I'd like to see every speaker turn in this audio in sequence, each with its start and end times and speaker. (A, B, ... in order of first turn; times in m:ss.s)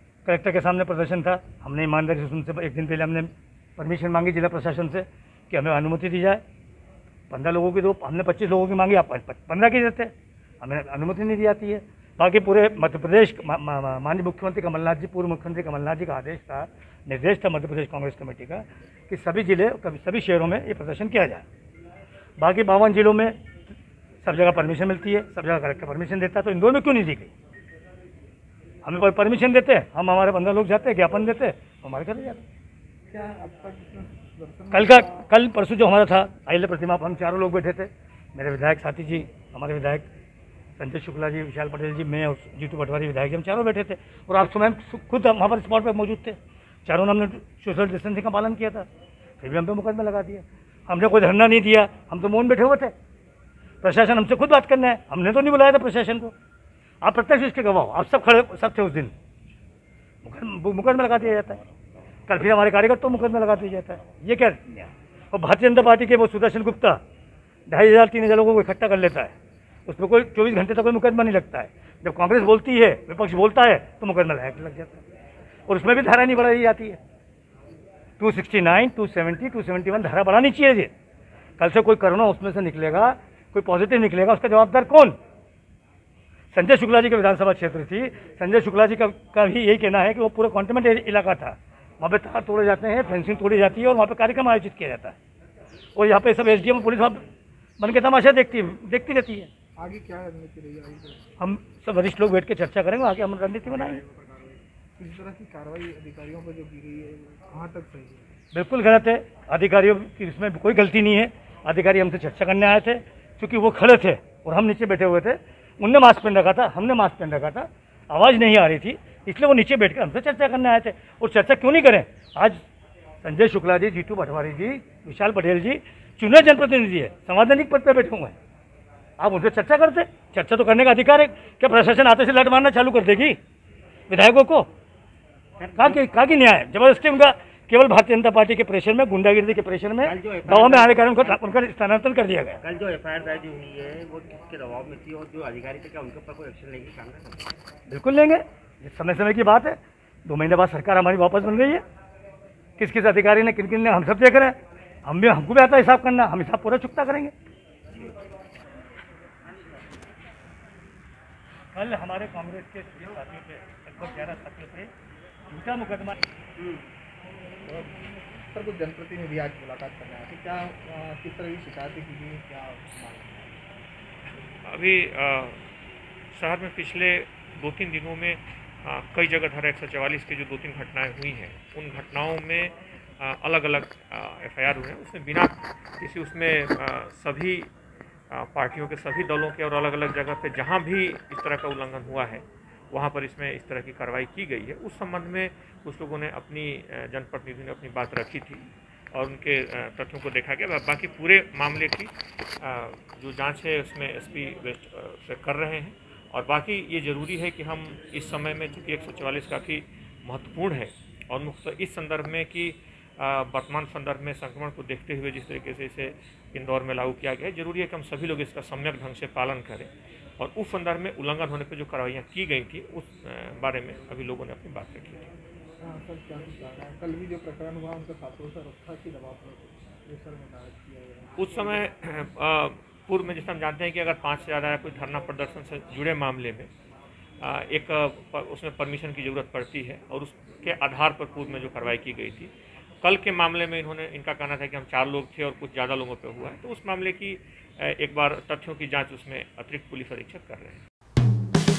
0:00.2-0:06.4 A
0:07.3-0:21.4 A
0:22.4-0:23.4 A
0:24.2-0:27.3 A
0:28.8-0:32.4 A
0:33.1-0:35.2 B
0:34.7-0:40.1 A
0:40.8-0:48.9 A
0:49.4-0:52.9 A
0:53.8-0:56.3 A
0:57.0-0:59.1 A
1:00.2-1:01.6 A
1:02.3-1:07.0 A
1:07.7-1:09.3 A
1:09.9-1:15.0 A
1:15.7-1:17.0 A
1:18.2-1:20.9 A
1:21.6-1:25.2 A
1:26.5-1:35.2 A
1:36.0-1:37.2 A
1:37.8-1:39.5 A
1:39.8-1:41.2 B
1:41.4-1:44.0 A
1:43.8-1:48.3 B
1:48.5-2:02.6 A
2:03.2-2:08.4 A
2:09.2-2:13.4 A
2:14.1-2:14.7 A
2:15.6-2:22.6 A
2:20.0-2:21.5 C
2:22.6-2:27.5 C
2:27.9-2:31.8 A
2:32.8-2:37.3 A
2:41.7-2:44.9 A
2:45.5-2:46.2 A
2:47.6-2:53.6 B
2:54.6-2:55.6 D
2:56.3-3:07.7 D
3:08.3-3:45.3 D
3:45.8-3:51.8 B
3:51.4-3:56.7 D
3:57.4-4:02.5 D
4:03.0-4:10.8 D